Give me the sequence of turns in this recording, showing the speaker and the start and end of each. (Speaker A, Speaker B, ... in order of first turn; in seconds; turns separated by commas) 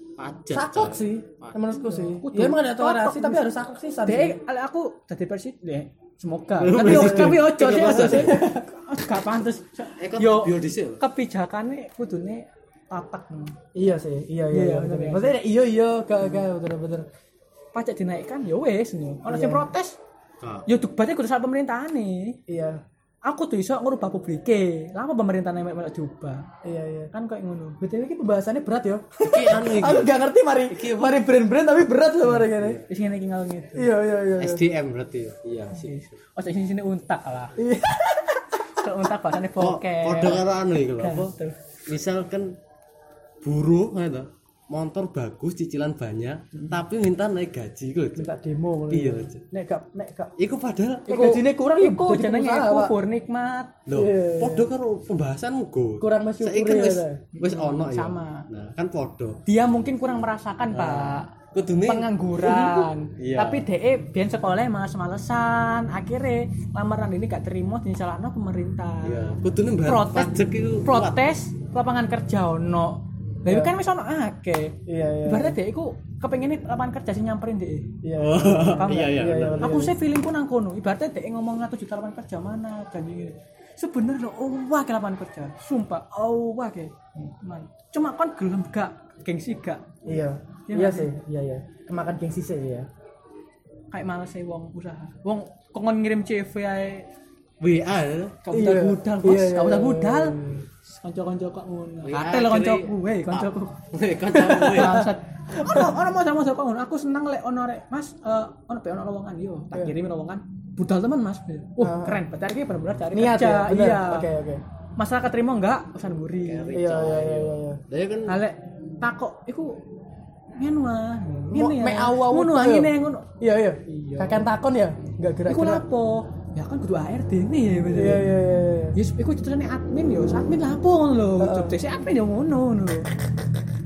Speaker A: 0.2-1.6, Speaker B: 0.5-4.4, Speaker C: 1.9-3.4, Speaker C: 4.1-13.6, Speaker A: 6.6-8.4, Speaker B: 6.8-8.7, Speaker A: 10.0-11.0, Speaker B: 13.8-17.1, Speaker C: 14.5-15.4, Speaker C: 17.7-20.0, Speaker B: 19.3-19.7, Speaker A: 20.4-20.7, Speaker C: 20.7-22.4, Speaker B: 22.5-22.8, Speaker C: 23.2-26.5, Speaker B: 26.6-27.1, Speaker C: 27.1-27.8, Speaker B: 27.8-32.8, Speaker A: 29.2-30.1, Speaker A: 30.7-31.3, Speaker A: 32.5-32.8, Speaker C: 32.9-33.9, Speaker B: 33.8-34.6, Speaker A: 34.4-36.1, Speaker C: 35.8-37.6, Speaker B: 37.6-38.6, Speaker C: 38.7-41.6, Speaker A: 39.6-41.4, Speaker A: 41.9-42.6, Speaker A: 43.4-48.3, Speaker B: 48.2-50.3, Speaker A: 48.9-49.4, Speaker A: 50.4-51.1, Speaker C: 51.1-53.8, Speaker B: 51.1-53.0, Speaker A: 53.9-59.4, Speaker B: 53.9-54.7, Speaker B: 56.0-57.2, Speaker C: 57.4-58.5, Speaker C: 59.5-61.3, Speaker A: 60.7-63.6, Speaker C: 61.8-78.0, Speaker A: 69.0-71.2, Speaker B: 73.5-73.7, Speaker B: 74.9-75.6, Speaker B: 78.0-79.9, Speaker A: 78.2-79.8, Speaker C: 78.8-89.9, Speaker B: 90.0-92.9, Speaker C: 90.7-91.1, Speaker C: 93.9-97.1, Speaker A: 97.6-98.4, Speaker C: 98.4-103.8, Speaker B: 98.5-100.7, Speaker A: 102.1-105.1, Speaker C: 104.3-114.3, Speaker B: 104.7-105.9, Speaker B: 111.8-112.2, Speaker B: 113.1-114.6, Speaker C: 115.0-116.8, Speaker A: 116.5-118.4, Speaker B: 116.7-117.8, Speaker C: 118.3-119.8, Speaker C: 120.5-123.3, Speaker B: 121.5-125.8, Speaker C: 123.9-124.5, Speaker C: 125.5-128.3, Speaker B: 127.9-129.0, Speaker C: 128.9-133.1, Speaker B: 131.4-131.8